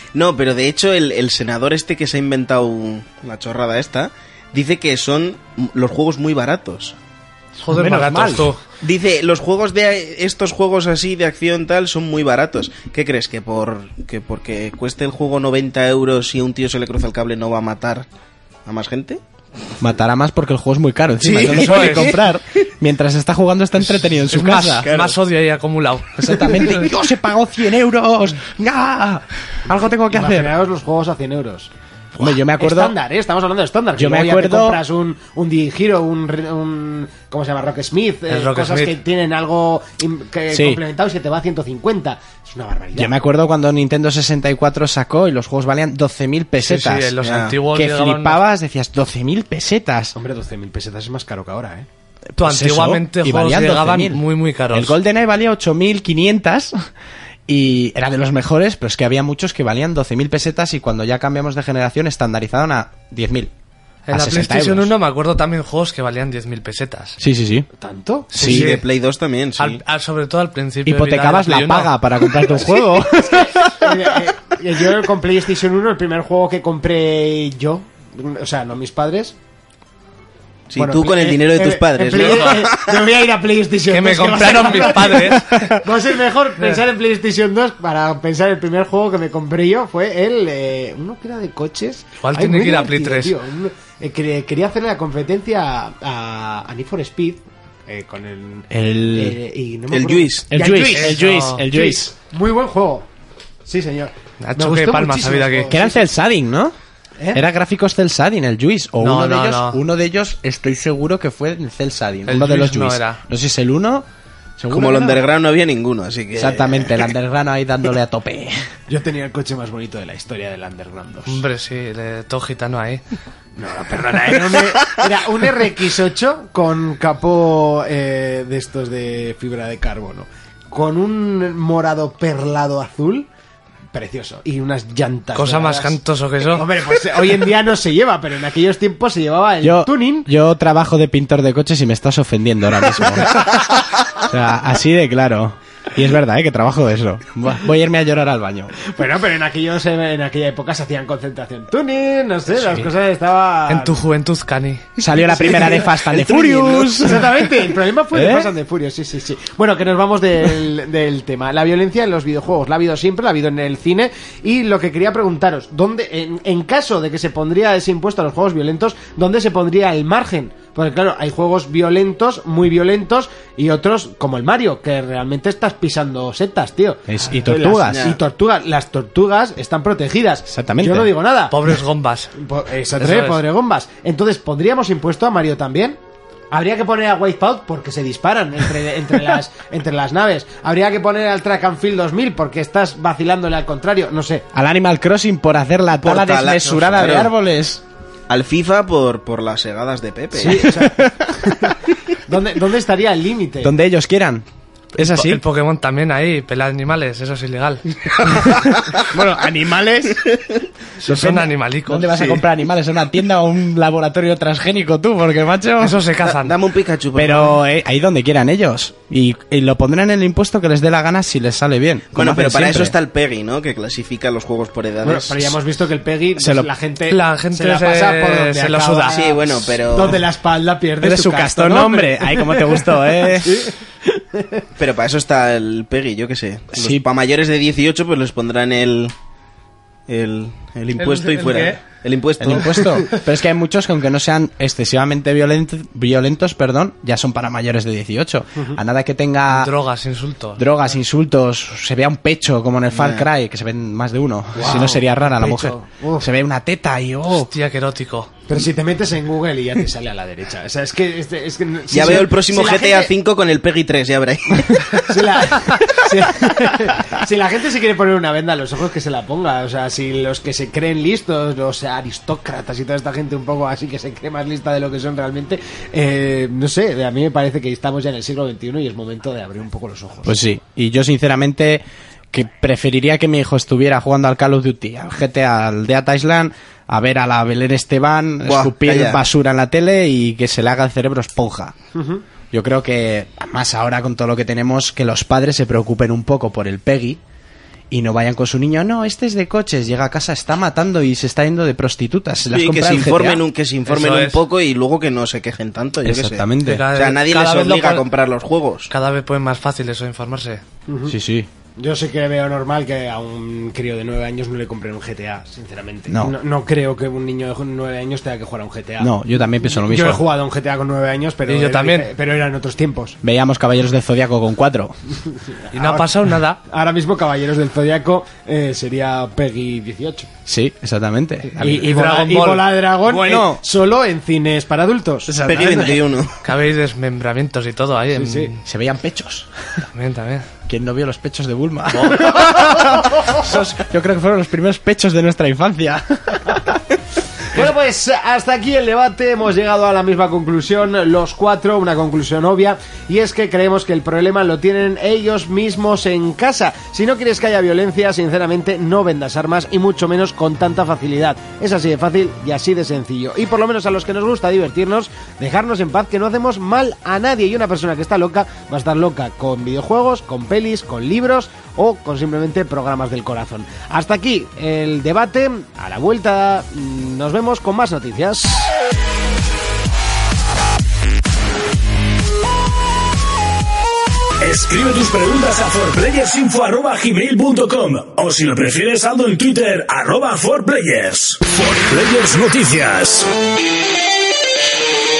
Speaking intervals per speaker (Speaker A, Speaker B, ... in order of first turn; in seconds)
Speaker A: 0.1-7.0, 8.8-18.1, 18.7-19.2, 21.2-22.2, 24.8-25.2, 47.2-47.5, 68.4-69.8, 80.7-83.0, 99.9-100.5, 114.7-117.1, 177.9-178.2, 196.0-197.3, 198.3-200.8, 216.3-217.6, 222.1-225.6, 229.1-230.2, 234.8-239.1, 240.1-243.1, 252.9-253.3, 261.9-265.0, 288.4-289.2, 302.5-308.9, 335.4-336.3
Speaker B: 7.6-8.6, 21.4-22.1, 24.1-26.8, 38.3-39.0, 46.6-48.4, 52.4-55.0, 64.1-67.2, 68.4-68.8, 69.6-72.5, 83.9-85.8, 92.2-93.3, 100.9-101.6, 104.4-105.7, 109.0-109.8, 112.3-113.2, 121.3-123.0, 135.4-136.7, 153.7-154.9, 181.5-182.3, 183.0-183.4, 205.0-208.4, 211.0-212.4, 215.8-216.6, 227.1-229.2, 241.0-241.8, 249.5-250.7, 257.3-258.3, 303.9-304.4, 306.6-308.1, 308.9-310.6, 321.5-322.1, 325.7-326.6, 331.7-332.8, 336.4-338.6, 339.9-340.5, 341.9-342.4
Speaker C: 7.6-8.5, 19.8-24.9, 26.2-30.5, 32.1-33.0, 34.0-34.8, 40.5-40.8, 43.0-47.1, 47.7-50.1, 52.3-56.9, 57.5-63.5, 64.1-65.0, 67.2-67.7, 68.3-68.8, 70.8-74.0, 85.1-85.7, 98.7-99.4, 100.5-102.1, 105.7-106.8, 107.3-114.1, 114.6-115.2, 116.3-118.6, 139.6-148.8, 152.6-152.9, 155.0-158.5, 177.1-178.1, 180.5-181.1, 194.5-197.8, 200.4-201.7, 203.6-205.4, 208.9-210.2, 211.1-216.0, 217.2-222.9, 226.4-226.7, 231.0-233.7, 236.7-237.1, 242.4-249.7, 250.6-257.5, 280.3-291.8, 292.5-297.2, 297.9-303.4, 306.0-306.9, 311.1-311.5, 316.1-316.4, 319.0-320.3, 323.2-325.0, 330.5-332.0, 333.0-333.6, 335.3-336.0, 338.6-339.5, 340.7-346.8
Speaker D: 30.1-43.1, 50.2-51.9, 67.8-68.6, 73.0-79.4, 80.8-103.1, 103.7-106.0, 118.9-121.4, 123.6-133.3, 133.9-136.0, 136.5-140.3, 148.8-154.0, 155.2-181.6, 182.4-186.0, 186.5-194.4, 200.4-201.7, 202.3-203.7, 225.0-234.7, 254.6-256.3, 258.5-263.1, 264.9-280.4, 291.9-292.2, 310.9-311.2, 311.8-319.2, 319.7-323.2, 325.5-330.3, 331.6-335.3, 338.1-338.5, 347.5-378.7
Speaker E: 384.4-393.3